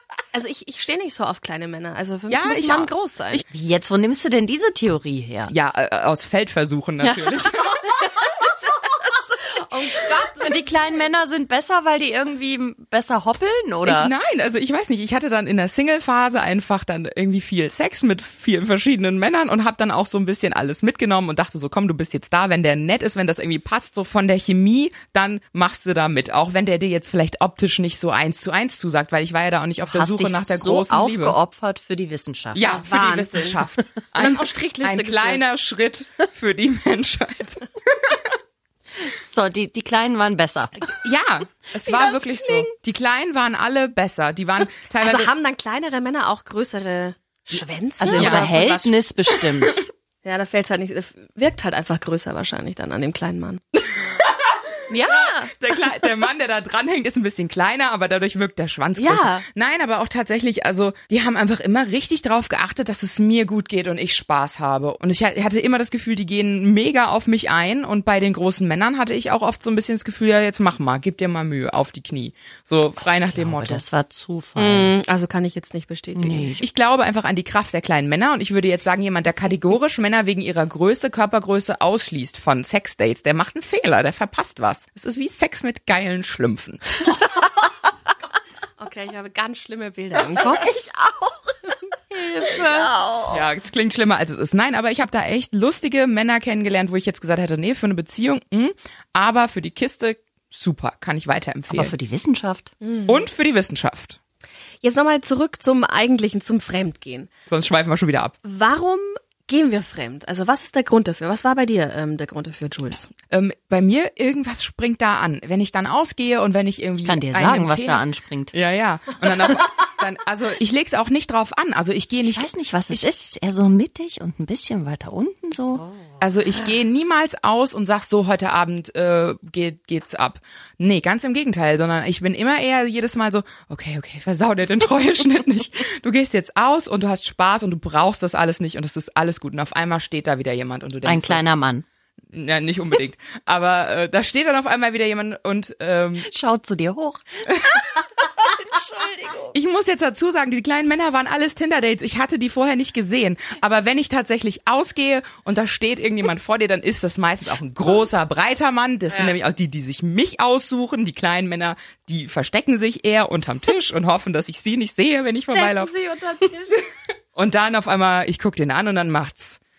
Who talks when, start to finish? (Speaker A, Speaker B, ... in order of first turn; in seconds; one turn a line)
Speaker A: 0.3-3.5
Speaker B: 2.3-3.4
Speaker C: 3.5-5.5
Speaker B: 5.5-7.9
Speaker C: 7.0-9.4
Speaker A: 9.5-10.9
Speaker C: 10.4-14.1
Speaker B: 13.9-31.4
Speaker C: 29.8-32.6
Speaker B: 32.5-38.3
Speaker A: 32.6-33.6
Speaker A: 34.2-35.4
Speaker C: 39.3-40.9
Speaker B: 40.8-45.3
Speaker C: 41.9-42.7
Speaker A: 45.0-49.0
Speaker C: 48.0-49.9
Speaker B: 48.2-48.5
Speaker A: 50.2-53.6
Speaker B: 53.8-54.5
Speaker C: 54.9-55.5
Speaker B: 55.1-73.8
Speaker A: 59.0-59.4
Speaker C: 73.2-74.9
Speaker A: 74.6-76.5
Speaker C: 76.2-76.7
Speaker B: 76.6-87.0
Speaker A: 88.8-90.8
Speaker C: 90.4-91.6
Speaker A: 91.7-92.9
Speaker C: 92.5-93.5
Speaker B: 93.3-101.9
Speaker C: 101.7-102.7
Speaker A: 102.8-103.3
Speaker B: 103.1-104.2
Speaker A: 104.8-107.3
Speaker B: 107.5-108.3
Speaker A: 108.4-113.1
Speaker B: 113.3-123.1
Speaker C: 117.0-118.5
Speaker C: 122.2-125.8
Speaker B: 126.2-141.4
Speaker C: 141.0-141.8
Speaker B: 142.3-146.3
Speaker C: 146.2-149.5
Speaker B: 147.5-147.8
Speaker B: 149.5-165.9
Speaker A: 165.5-166.9
Speaker B: 167.3-169.6